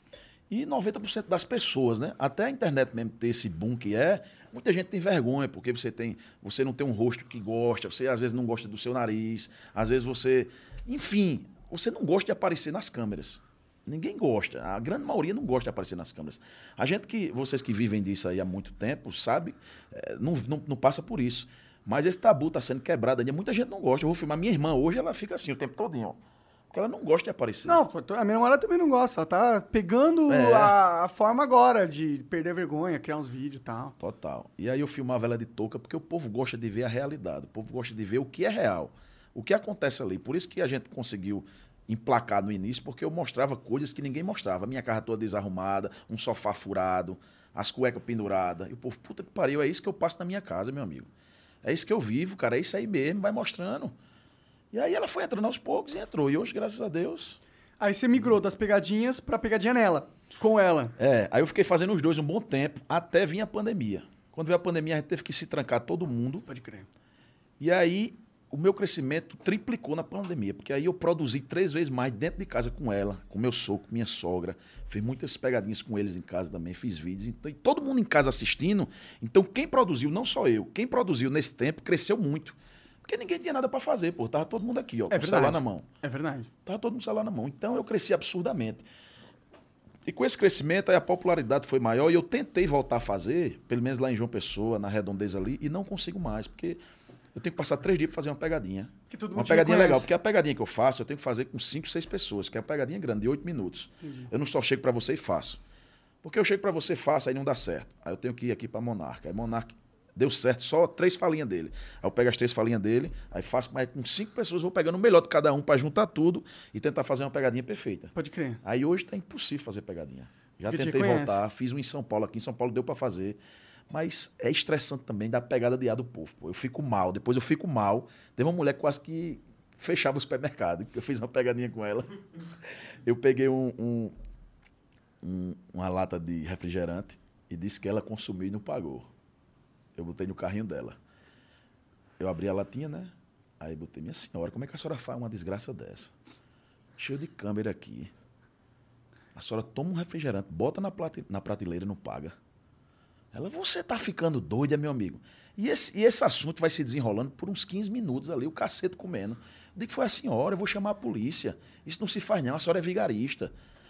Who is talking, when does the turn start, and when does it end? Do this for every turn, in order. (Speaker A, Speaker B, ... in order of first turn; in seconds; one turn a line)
Speaker A: 0.5-26.2
Speaker A: 26.7-27.8
Speaker B: 27.7-34.0
Speaker A: 30.3-30.7
Speaker A: 34.0-51.1
Speaker A: 51.6-53.9
Speaker A: 54.7-57.4
Speaker B: 57.8-60.9
Speaker A: 61.0-66.5
Speaker B: 66.5-66.9
Speaker A: 67.6-85.8
Speaker B: 85.1-86.5
Speaker A: 86.7-88.8
Speaker A: 90.0-96.8
Speaker A: 97.3-105.6
Speaker B: 99.1-100.1
Speaker B: 104.0-104.3
Speaker A: 106.2-123.4
Speaker B: 118.2-118.6
Speaker B: 120.7-121.4
Speaker A: 123.9-132.2
Speaker A: 133.1-134.1
Speaker A: 135.2-139.1
Speaker A: 140.0-141.0
Speaker A: 142.2-146.1
Speaker A: 147.0-148.1
Speaker A: 149.3-152.3
Speaker A: 153.3-163.5